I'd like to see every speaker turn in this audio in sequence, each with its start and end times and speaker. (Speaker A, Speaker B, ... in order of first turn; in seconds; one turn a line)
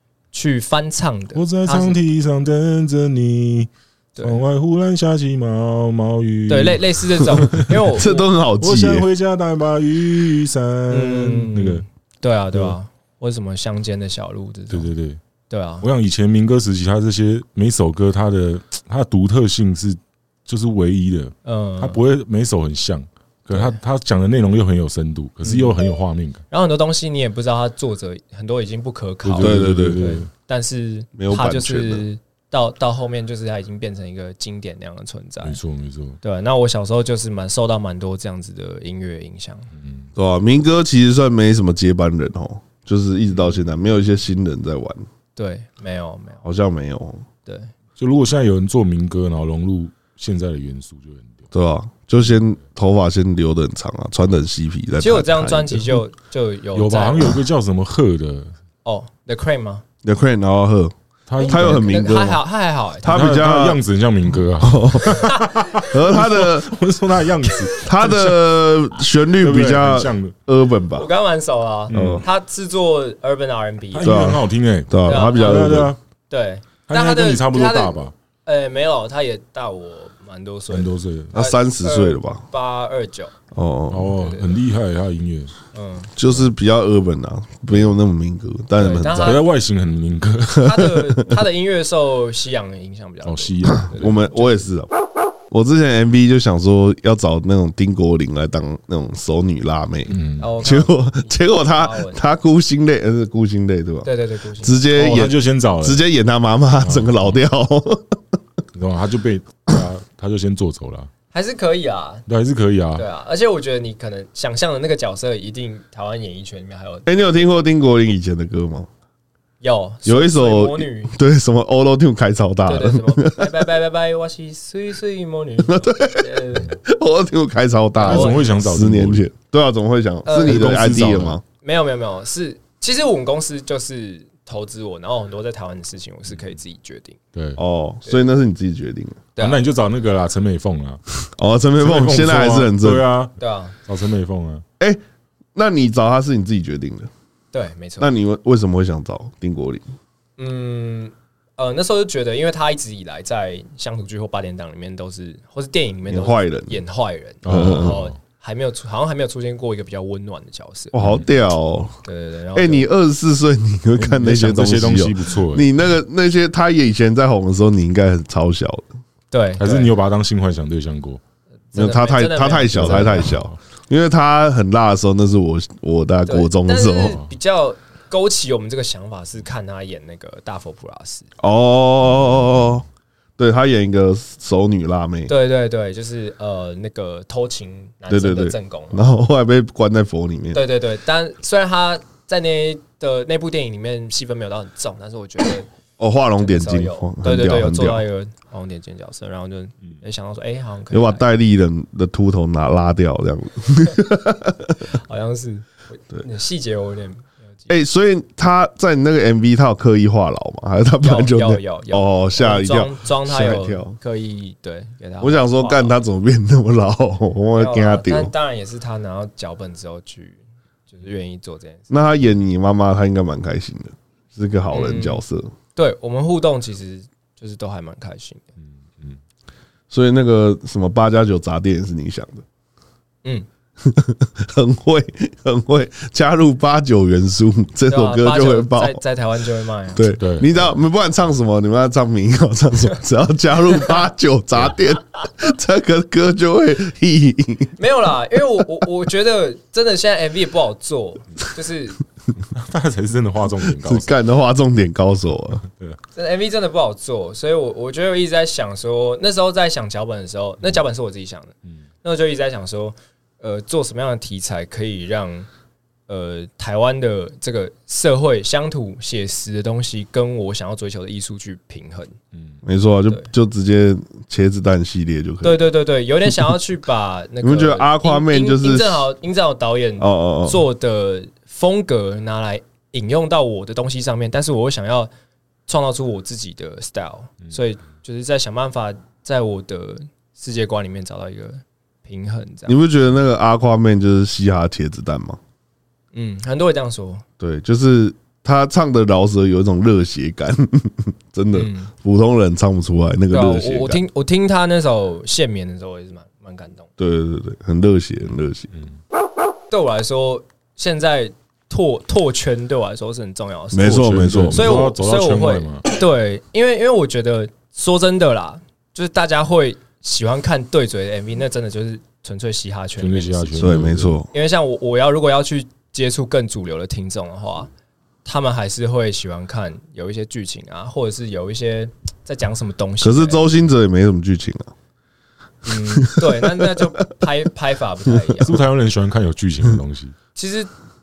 Speaker A: 0.3-2.0
Speaker B: 1.3-8.1
Speaker A: 6.5-8.3
Speaker C: 7.9-9.1
Speaker B: 8.6-11.8
Speaker A: 10.9-14.9
Speaker B: 14.7-15.2
Speaker A: 15.5-15.9
Speaker B: 15.8-26.4
Speaker A: 21.4-22.0
Speaker A: 23.5-23.8
Speaker A: 25.4-25.8
Speaker A: 26.5-35.6
Speaker B: 29.2-30.3
Speaker C: 29.4-30.0
Speaker C: 31.2-32.0
Speaker B: 35.4-36.2
Speaker A: 36.2-39.7
Speaker B: 39.7-40.1
Speaker C: 40.1-45.0
Speaker A: 45.4-46.4
Speaker C: 46.4-47.2
Speaker A: 47.5-47.7
Speaker B: 48.0-51.4
Speaker C: 51.5-56.0
Speaker A: 55.0-57.4
Speaker B: 56.7-58.5
Speaker A: 58.8-59.8
Speaker C: 60.0-60.9
Speaker B: 61.3-62.0
Speaker A: 61.4-63.3
Speaker C: 61.4-62.4
Speaker C: 63.0-63.8
Speaker B: 63.0-68.5
Speaker C: 64.6-66.7
Speaker A: 65.0-65.9
Speaker C: 67.8-71.1
Speaker B: 69.3-70.3
Speaker A: 70.9-74.2
Speaker B: 71.9-72.2
Speaker C: 71.9-72.2
Speaker B: 73.9-76.0
Speaker C: 74.0-75.9
Speaker A: 75.0-83.3
Speaker B: 76.9-78.1
Speaker B: 80.7-81.3
Speaker C: 81.3-82.4
Speaker C: 83.5-84.2
Speaker B: 83.9-85.5
Speaker A: 84.2-84.6
Speaker A: 85.7-86.1
Speaker C: 86.2-89.4
Speaker A: 88.8-89.5
Speaker B: 89.1-90.9
Speaker A: 90.5-94.6
Speaker C: 90.6-91.4
Speaker B: 93.2-94.2
Speaker C: 93.9-94.9
Speaker C: 95.5-108.2
Speaker B: 100.1-100.5
Speaker A: 100.4-102.2
Speaker A: 104.0-104.9
Speaker B: 104.9-106.0
Speaker B: 106.8-107.4
Speaker B: 108.7-111.1
Speaker A: 111.3-112.2
Speaker B: 112.3-113.0
Speaker A: 113.0-117.1
Speaker C: 117.0-118.9
Speaker A: 119.6-121.1
Speaker C: 120.0-123.6
Speaker A: 122.7-126.8
Speaker C: 125.6-131.4
Speaker A: 128.0-128.4
Speaker B: 128.0-129.2
Speaker A: 130.2-130.8
Speaker B: 130.3-131.4
Speaker A: 131.6-137.2
Speaker B: 137.3-137.6
Speaker C: 137.6-139.2
Speaker A: 139.3-139.6
Speaker B: 139.4-141.0
Speaker C: 141.3-143.0
Speaker B: 141.8-144.6
Speaker A: 143.4-143.8
Speaker C: 145.5-147.1
Speaker A: 147.5-148.1
Speaker C: 148.0-149.8
Speaker A: 150.4-160.9
Speaker C: 156.1-156.8
Speaker B: 157.4-158.2
Speaker C: 157.5-158.0
Speaker C: 160.9-161.9
Speaker B: 161.0-161.2
Speaker A: 162.0-162.9
Speaker C: 162.5-168.9
Speaker B: 164.0-165.7
Speaker A: 169.3-169.9
Speaker B: 169.6-171.2
Speaker A: 171.7-173.3
Speaker C: 171.7-177.2
Speaker B: 172.8-173.5
Speaker A: 176.3-181.3
Speaker C: 181.4-182.8
Speaker C: 183.4-185.3
Speaker A: 185.3-189.0
Speaker C: 188.1-190.6
Speaker A: 190.5-195.7
Speaker C: 196.0-198.0
Speaker A: 196.4-201.2
Speaker C: 200.9-204.8
Speaker A: 204.9-207.7
Speaker C: 207.7-213.9
Speaker A: 211.0-216.0
Speaker C: 215.2-218.3
Speaker A: 217.5-221.9
Speaker C: 221.9-225.5
Speaker A: 224.7-225.2
Speaker A: 225.8-228.4
Speaker B: 228.8-229.2
Speaker C: 229.9-232.4
Speaker C: 233.8-239.0
Speaker A: 237.9-240.1
Speaker C: 239.9-247.7
Speaker B: 240.2-240.5
Speaker A: 247.8-252.0
Speaker B: 252.5-254.2
Speaker C: 253.7-255.6
Speaker B: 255.7-256.0
Speaker A: 256.1-265.5
Speaker A: 266.1-272.1
Speaker B: 272.3-272.6
Speaker C: 272.6-275.6
Speaker A: 275.4-285.1
Speaker C: 277.4-279.0
Speaker C: 280.0-280.6
Speaker A: 285.7-292.8
Speaker C: 292.7-295.4
Speaker A: 296.1-297.2
Speaker C: 297.4-304.0
Speaker A: 301.5-301.9
Speaker A: 303.3-306.9
Speaker C: 307.0-308.7
Speaker A: 309.7-323.7
Speaker C: 313.7-314.9
Speaker B: 313.8-315.8
Speaker B: 323.0-324.1
Speaker C: 323.6-324.3
Speaker A: 324.3-327.7
Speaker A: 328.2-333.5
Speaker C: 333.0-334.7
Speaker A: 335.6-338.6
Speaker C: 335.7-336.9
Speaker B: 338.4-340.1
Speaker A: 340.3-340.7